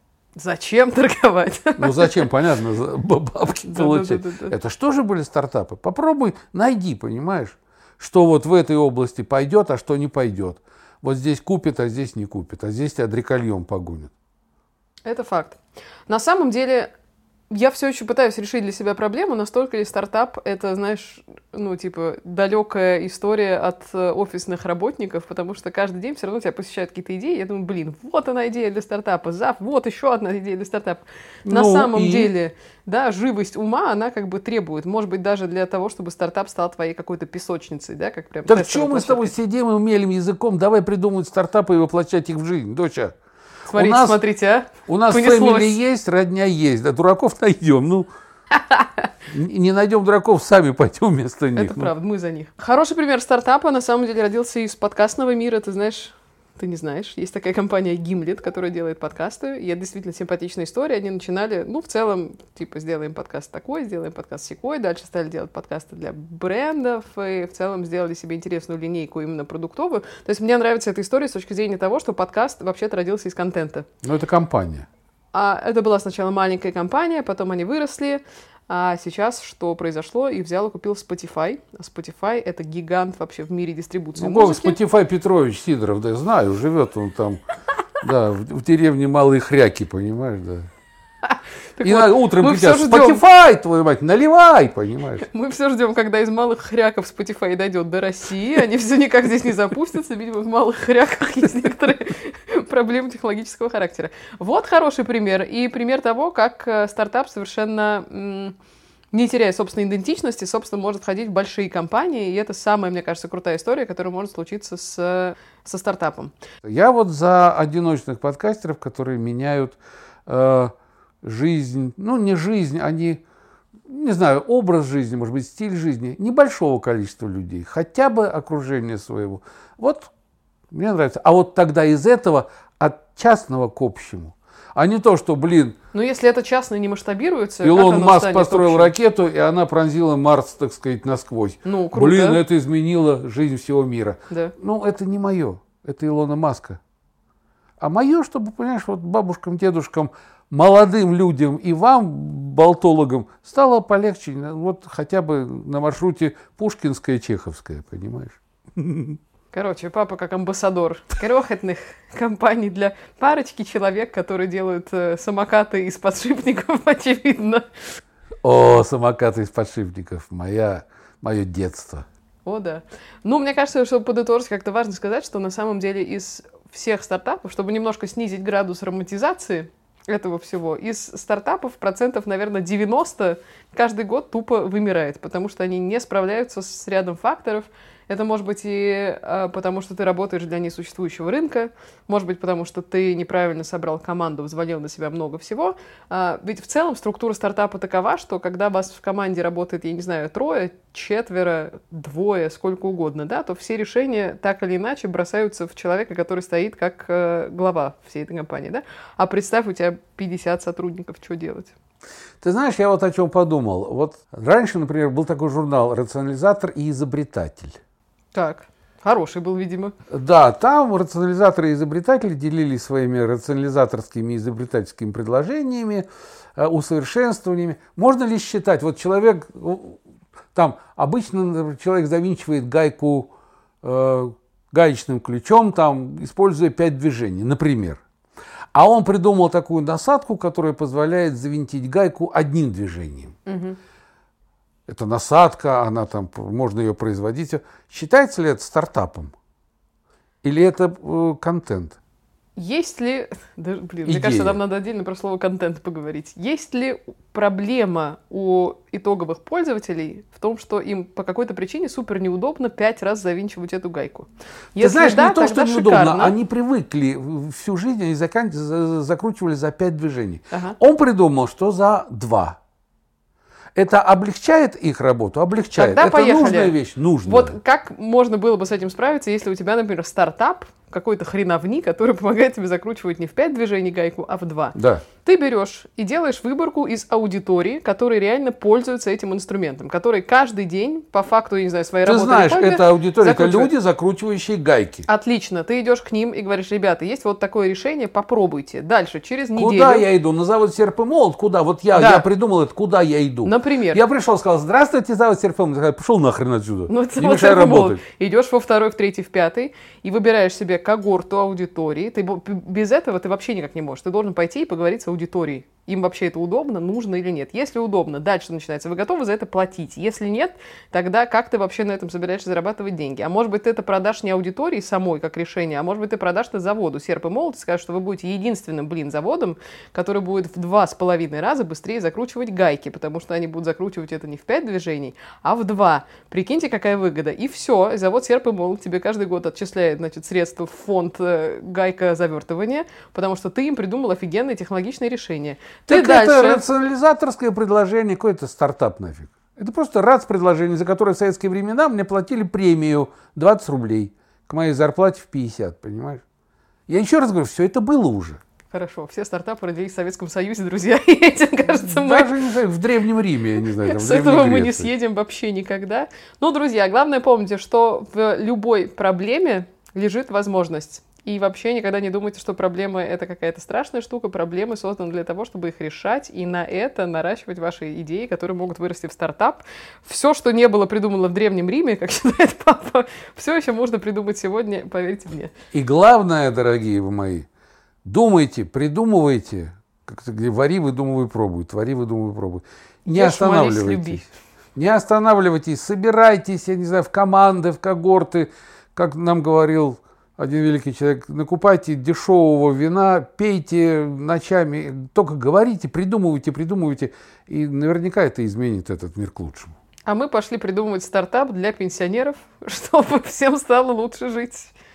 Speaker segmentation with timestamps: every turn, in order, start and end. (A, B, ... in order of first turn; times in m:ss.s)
0:00.4-0:02.3 A
0:01.8-0:14.1 B
0:03.7-0:04.5 A
0:15.1-0:16.9 A
0:17.5-0:39.3 A
0:31.5-0:32.3 B
0:38.5-0:43.1 B
0:43.7-0:45.8 A
0:43.8-0:44.2 B
0:44.9-0:48.1 B
0:48.5-0:49.0 A
0:49.3-0:51.9 B
0:51.6-1:13.9 A
1:14.0-1:14.9 B
1:15.3-1:24.8 A
1:24.2-1:27.4 B
1:28.0-1:30.7 B
1:31.2-1:33.2 A
1:31.8-1:35.3 B
1:35.2-1:48.6 A
1:49.1-1:56.3 A
1:56.6-2:00.7 B
2:01.2-2:03.2 B
2:03.9-2:10.1 B
2:10.7-2:15.8 B
2:15.9-2:18.9 A
2:17.6-2:26.8 B
2:21.6-2:22.4 A
2:27.8-2:39.2 B
2:39.5-2:48.0 A
2:48.4-2:52.1 B
2:52.5-3:31.7 A
3:32.4-3:37.8 B
3:38.3-3:39.9 A
3:40.1-3:50.0 B
3:50.6-3:53.3 B
3:53.8-3:58.0 B
3:58.7-4:03.4 B
4:03.5-4:03.8 A
4:04.9-4:09.3 B
4:10.4-4:12.0 B
4:12.6-4:26.4 A
4:14.1-4:14.6 B
4:24.8-4:32.6 B
4:33.8-4:37.6 B
4:35.7-4:53.7 A
4:44.7-4:45.0 B
4:52.0-4:55.1 B
4:55.1-5:00.1 A
4:59.6-5:08.0 B
5:01.9-5:02.2 A
5:03.4-5:04.0 A
5:06.9-5:46.6 A
5:45.9-5:56.2 B
5:56.9-5:58.4 B
5:58.7-6:02.4 A
6:01.8-6:04.9 B
6:03.8-6:25.5 A
6:25.7-6:27.5 B
6:28.0-6:34.2 B
6:33.1-6:34.3 A
6:34.8-6:49.8 B
6:50.1-6:54.7 A